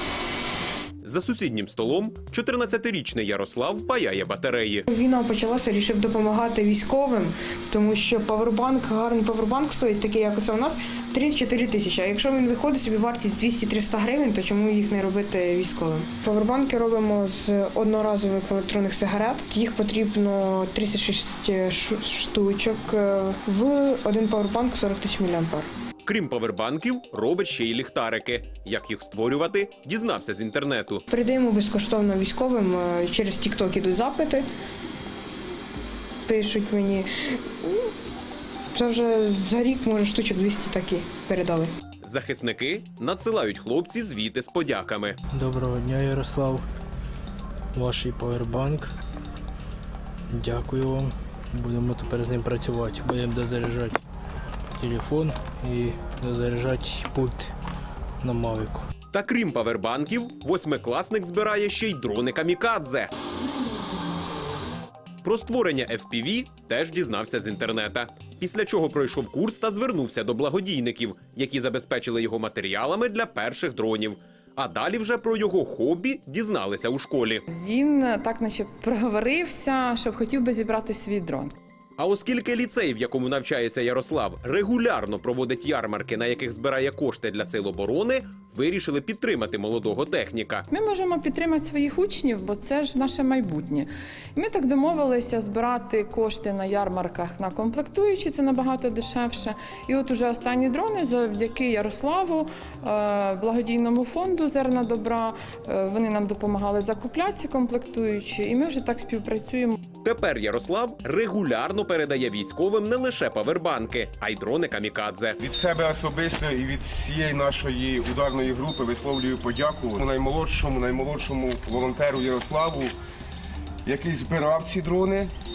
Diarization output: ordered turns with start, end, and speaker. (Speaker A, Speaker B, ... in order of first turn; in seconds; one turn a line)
Speaker A: 1.0-4.9
Speaker B: 4.9-25.7
Speaker A: 26.0-31.0
Speaker B: 31.1-34.4
Speaker B: 36.2-37.9
Speaker B: 38.7-41.7
Speaker A: 42.0-45.2
Speaker C: 45.3-46.6
Speaker C: 47.7-48.9
Speaker C: 50.3-54.0
Speaker C: 54.8-57.5
Speaker C: 58.2-58.9
Speaker A: 59.1-63.1
Speaker A: 65.2-77.4
Speaker D: 77.5-81.5
Speaker A: 82.0-90.7
Speaker D: 90.7-109.8
Speaker A: 110.0-115.4
Speaker E: 115.4-122.9
Speaker E: 123.8-125.3